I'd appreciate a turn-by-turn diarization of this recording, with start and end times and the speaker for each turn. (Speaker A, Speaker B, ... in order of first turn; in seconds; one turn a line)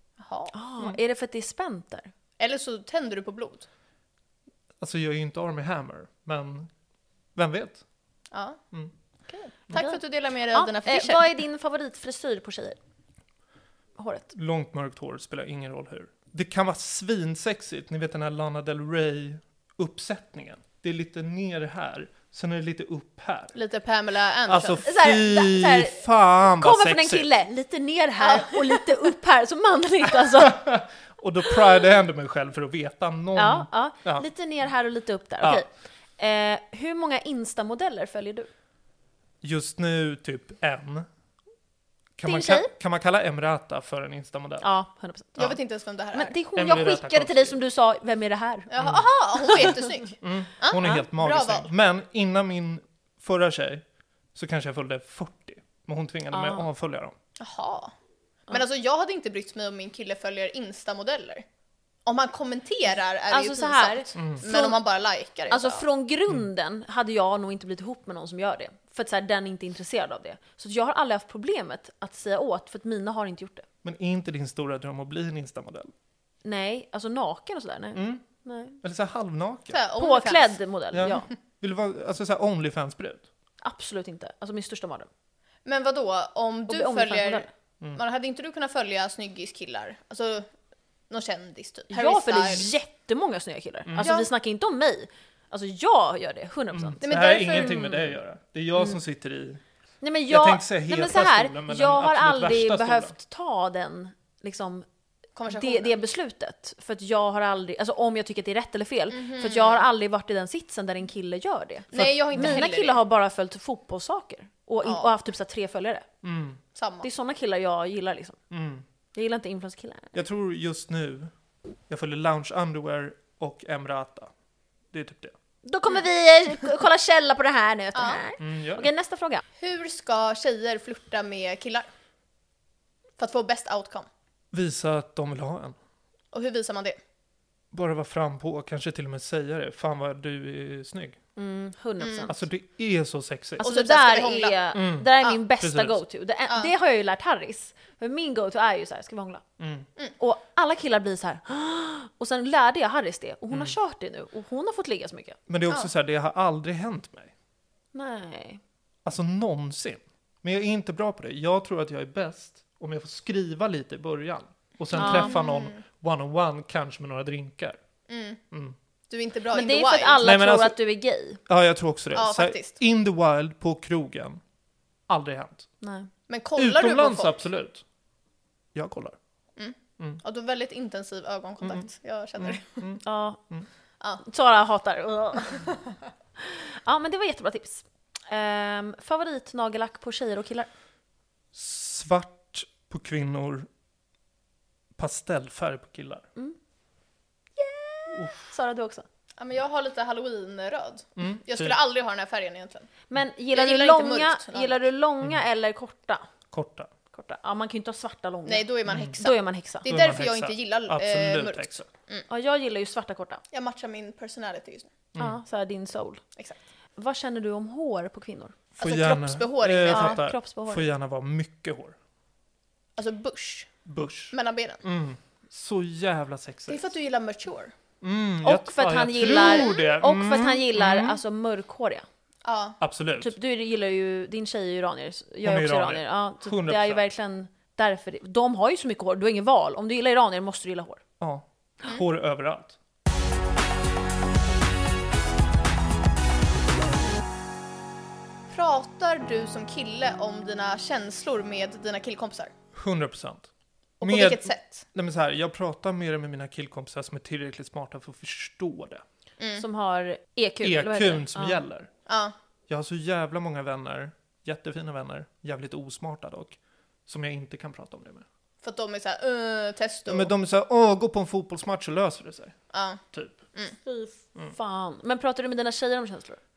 Speaker A: 0.2-0.5
Speaker B: 0.5-2.1
Speaker A: 2.4-3.7
Speaker C: 4.8-6.7
Speaker C: 7.3-7.8
Speaker A: 8.3-8.6
Speaker A: 9.3-11.2
Speaker B: 9.7-10.0
Speaker B: 10.5-12.8
Speaker B: 14.0-14.3
Speaker C: 14.3-23.5
Speaker A: 23.5-24.8
Speaker C: 24.5-27.3
Speaker B: 24.8-26.0
Speaker B: 26.5-30.6
Speaker A: 28.2-28.9
Speaker C: 30.4-34.3
Speaker B: 33.4-38.5
Speaker C: 39.4-41.1
Speaker C: 42.2-44.7
Speaker B: 42.2-42.7
Speaker B: 44.6-45.5
Speaker A: 45.4-46.4
Speaker B: 46.1-48.7
Speaker C: 46.5-47.6
Speaker A: 48.7-51.7
Speaker C: 48.8-49.1
Speaker B: 49.4-49.8
Speaker C: 50.2-53.8
Speaker C: 54.4-57.1
Speaker B: 56.3-56.7
Speaker A: 57.4-57.9
Speaker A: 58.5-61.4
Speaker A: 62.1-65.9
Speaker B: 63.3-64.8
Speaker C: 64.2-64.4
Speaker B: 65.5-73.7
Speaker C: 73.8-75.9
Speaker B: 76.4-78.8
Speaker C: 78.0-78.2
Speaker C: 78.8-79.8
Speaker A: 79.7-80.6
Speaker B: 80.0-81.3
Speaker C: 80.9-83.2
Speaker B: 83.6-85.1
Speaker A: 85.7-90.5
Speaker B: 86.7-87.5
Speaker A: 91.1-92.7
Speaker B: 91.9-98.0
Speaker C: 93.8-94.1
Speaker A: 94.0-94.3
Speaker C: 96.7-99.6
Speaker A: 97.0-97.8
Speaker B: 100.0-104.9
Speaker C: 100.3-103.2
Speaker A: 105.4-105.9
Speaker B: 105.5-116.1
Speaker A: 109.1-109.8
Speaker A: 111.9-113.0
Speaker C: 111.9-112.7
Speaker A: 114.8-115.1
Speaker C: 116.2-116.6
Speaker A: 116.8-117.1
Speaker B: 117.0-118.4
Speaker C: 118.5-118.8
Speaker B: 119.1-120.2
Speaker C: 120.2-121.3
Speaker C: 121.9-124.3
Speaker C: 124.9-125.3
Speaker B: 125.7-129.4
Speaker A: 128.0-128.2
Speaker C: 128.4-128.9
Speaker A: 129.6-131.9
Speaker A: 133.2-134.1
Speaker C: 134.5-135.8
Speaker A: 136.3-137.0
Speaker C: 137.7-141.2
Speaker B: 141.4-142.4
Speaker A: 142.0-142.3
Speaker C: 142.3-143.7
Speaker B: 143.6-149.4
Speaker A: 143.6-144.6
Speaker C: 144.7-146.0
Speaker C: 149.6-149.9
Speaker B: 150.2-155.4
Speaker C: 155.5-157.3
Speaker B: 157.9-158.6
Speaker C: 159.1-167.8
Speaker A: 164.9-165.8
Speaker B: 164.9-165.3
Speaker A: 168.1-168.4
Speaker C: 168.5-168.8
Speaker A: 169.1-170.2
Speaker B: 169.5-171.4
Speaker C: 170.2-170.8
Speaker C: 171.5-174.4
Speaker A: 172.2-172.8
Speaker C: 175.1-175.7
Speaker B: 175.8-176.1
Speaker A: 176.3-177.4
Speaker C: 176.6-177.8
Speaker C: 178.8-179.2
Speaker A: 179.6-182.9
Speaker C: 182.4-183.7
Speaker B: 183.0-183.4
Speaker B: 184.2-185.7
Speaker B: 186.4-190.7
Speaker C: 191.5-193.7
Speaker C: 195.0-196.3
Speaker B: 197.6-199.1
Speaker C: 198.1-198.5
Speaker A: 199.4-202.9
Speaker C: 201.2-201.8
Speaker B: 203.1-206.3
Speaker A: 203.5-204.9
Speaker C: 206.5-206.9
Speaker B: 207.1-209.9
Speaker A: 208.5-212.3
Speaker C: 208.9-209.2
Speaker C: 209.9-211.9
Speaker B: 212.3-213.4
Speaker A: 213.5-214.9
Speaker B: 215.2-216.2
Speaker B: 217.0-218.6
Speaker C: 218.8-222.0
Speaker A: 218.8-220.2
Speaker B: 219.9-220.8
Speaker A: 223.0-223.7
Speaker C: 223.8-226.9
Speaker A: 224.3-224.8
Speaker A: 226.7-227.7
Speaker C: 228.0-231.2
Speaker B: 228.4-232.1
Speaker A: 229.3-229.9
Speaker A: 232.4-232.8
Speaker C: 232.8-233.3
Speaker B: 233.2-241.0
Speaker C: 235.4-237.0
Speaker C: 241.2-242.8
Speaker A: 248.5-252.5
Speaker C: 252.7-253.5
Speaker A: 254.0-254.8
Speaker C: 254.0-259.0
Speaker A: 259.4-259.6
Speaker B: 259.6-261.6
Speaker C: 260.6-261.9
Speaker A: 262.1-262.3
Speaker C: 262.7-268.3
Speaker A: 268.6-270.3
Speaker C: 270.1-272.6
Speaker A: 272.7-273.0
Speaker C: 273.1-273.4
Speaker B: 273.8-276.4